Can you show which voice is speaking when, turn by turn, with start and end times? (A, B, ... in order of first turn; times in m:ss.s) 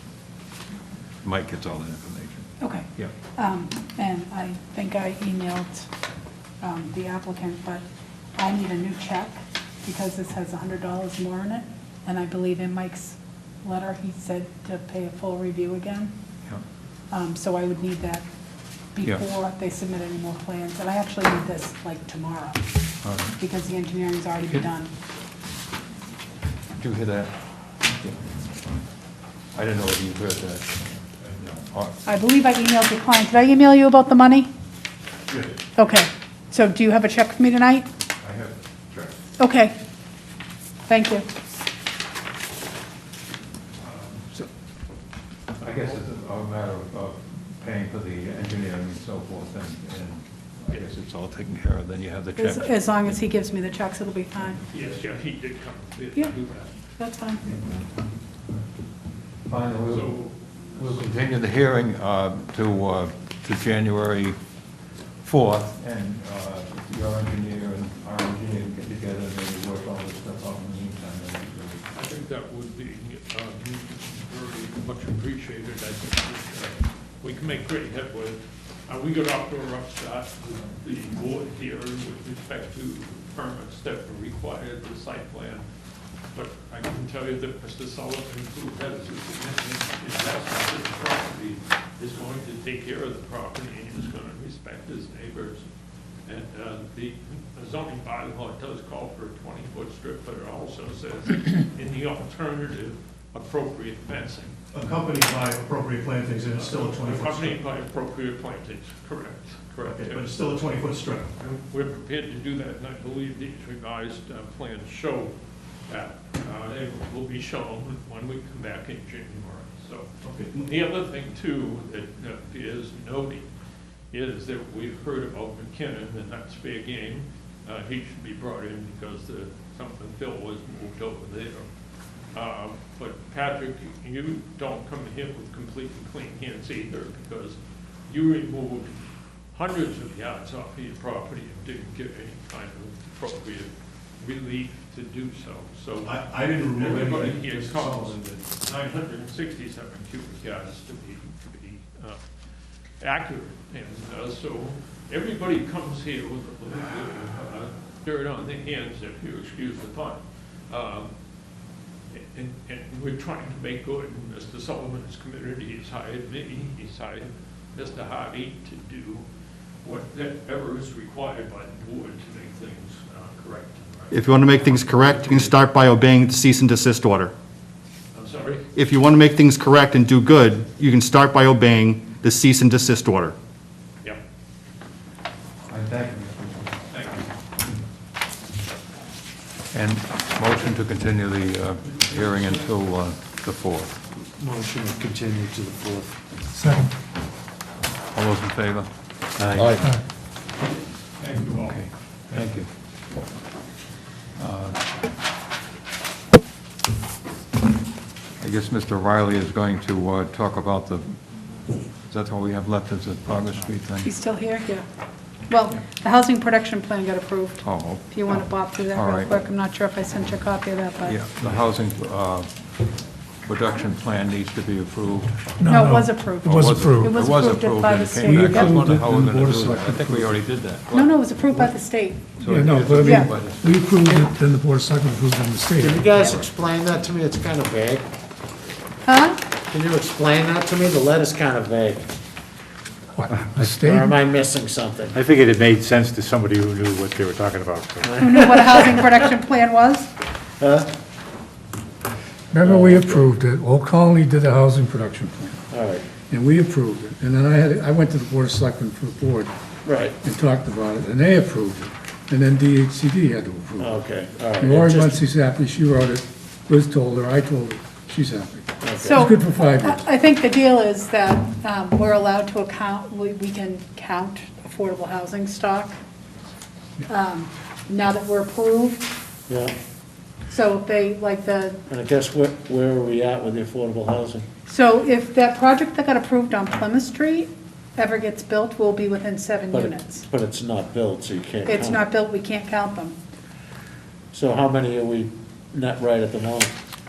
0:01.2-0:03.1 A
0:02.6-0:05.9 B
0:06.6-0:07.8 B
0:08.4-0:16.1 B
0:17.1-0:18.2 B
0:18.9-0:22.6 B
0:23.0-0:23.4 A
0:23.4-0:24.9 B
0:26.8-0:27.3 A
0:27.8-0:28.2 A
0:29.5-0:30.8 A
0:31.4-0:32.0 A
0:32.0-0:34.5 B
0:35.8-0:37.9 B
0:38.2-0:39.2 A
0:39.4-0:39.8 B
0:40.9-0:41.2 B
0:43.8-0:44.5 A
0:45.6-0:53.2 A
0:52.4-0:54.6 B
0:54.7-0:56.8 C
0:57.0-0:57.4 B
0:59.4-1:00.2 A
0:59.9-1:01.0 C
1:00.8-1:04.4 A
1:05.2-1:11.8 A
1:11.9-1:25.6 C
1:26.3-1:35.7 C
1:36.2-1:44.6 C
1:44.7-1:47.6 D
1:46.5-1:50.7 C
1:49.8-1:51.3 D
1:51.4-1:55.3 C
1:55.9-2:03.5 C
2:00.2-2:00.6 D
2:04.1-2:11.7 C
2:12.3-2:17.6 C
2:18.1-2:32.2 C
2:26.0-2:28.2 D
2:33.0-2:41.1 C
2:42.1-2:49.2 C
2:49.8-2:55.6 C
2:54.4-2:57.3 E
2:58.1-2:58.7 C
2:59.3-3:01.1 E
3:01.6-3:02.6 E
3:05.7-3:06.8 A
3:06.9-3:07.3 C
3:09.7-3:14.0 A
3:12.1-3:12.5 C
3:14.4-3:16.0 F
3:16.5-3:16.9 G
3:18.1-3:18.9 A
3:19.4-3:19.8 A
3:20.7-3:22.6 C
3:21.6-3:22.7 A
3:24.4-3:24.8 A
3:28.4-3:31.2 A
3:32.1-3:34.1 A
3:34.0-3:34.8 B
3:35.5-3:41.1 B
3:37.6-3:39.3 A
3:41.0-3:42.6 A
3:43.4-3:45.5 A
3:45.6-3:47.1 G
3:45.7-3:48.8 B
3:46.4-3:53.8 A
3:47.3-3:48.2 E
3:48.2-3:50.4 G
3:50.9-3:52.3 B
3:52.4-3:56.2 G
3:55.8-3:58.1 F
3:59.1-3:59.4 B
3:59.5-4:02.1 F
4:03.2-4:04.2 G
4:03.6-4:05.2 F
4:05.3-4:08.0 H
4:08.0-4:09.3 F
4:08.3-4:10.1 B
4:08.4-4:08.7 E
4:10.6-4:10.9 F
4:12.5-4:15.6 G
4:12.6-4:13.3 F
4:15.7-4:16.0 F
4:16.3-4:19.5 G
4:19.8-4:20.2 F
4:20.2-4:24.0 G
4:23.8-4:25.2 F
4:24.6-4:30.0 G
4:28.8-4:29.2 F
4:29.1-4:36.0 B
4:37.1-4:39.1 B
4:39.5-4:39.7 F
4:40.5-4:41.8 B
4:41.9-4:44.5 F
4:44.7-4:50.2 B
4:49.7-4:52.1 F
4:51.7-4:53.2 B
4:54.3-4:56.7 F